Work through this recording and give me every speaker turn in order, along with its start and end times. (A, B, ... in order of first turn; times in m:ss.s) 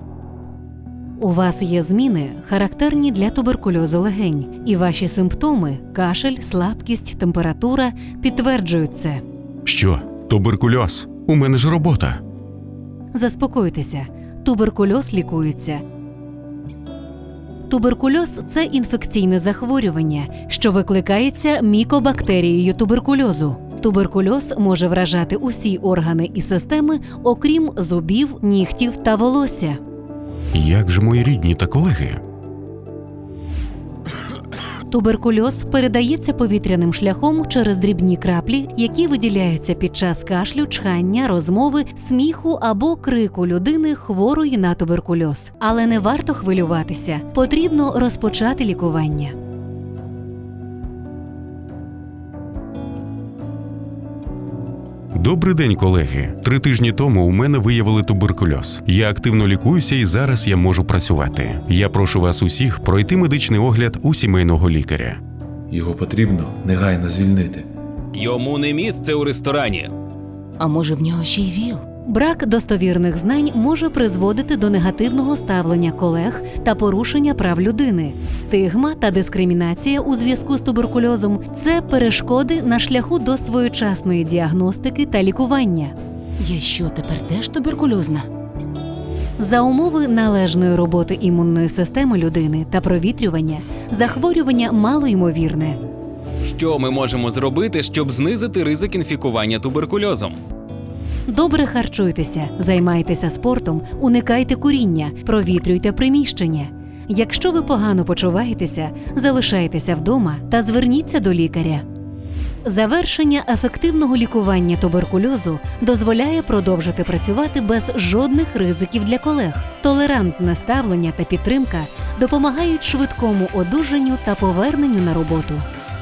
0:01.2-0:09.2 A
0:09.6-0:12.2 B
0:13.1-0:15.8 A
0:17.7-0:29.8 A
0:30.5-0:32.2 B
0:34.9-0:49.4 A
0:55.2-1:05.2 B
1:05.7-1:07.7 C
1:08.1-1:09.9 D
1:10.6-1:11.8 E
1:12.1-1:26.0 A
1:26.4-1:28.3 E
1:29.4-1:35.8 A
1:36.4-1:40.4 D
1:41.3-1:51.8 A
1:52.6-2:05.7 A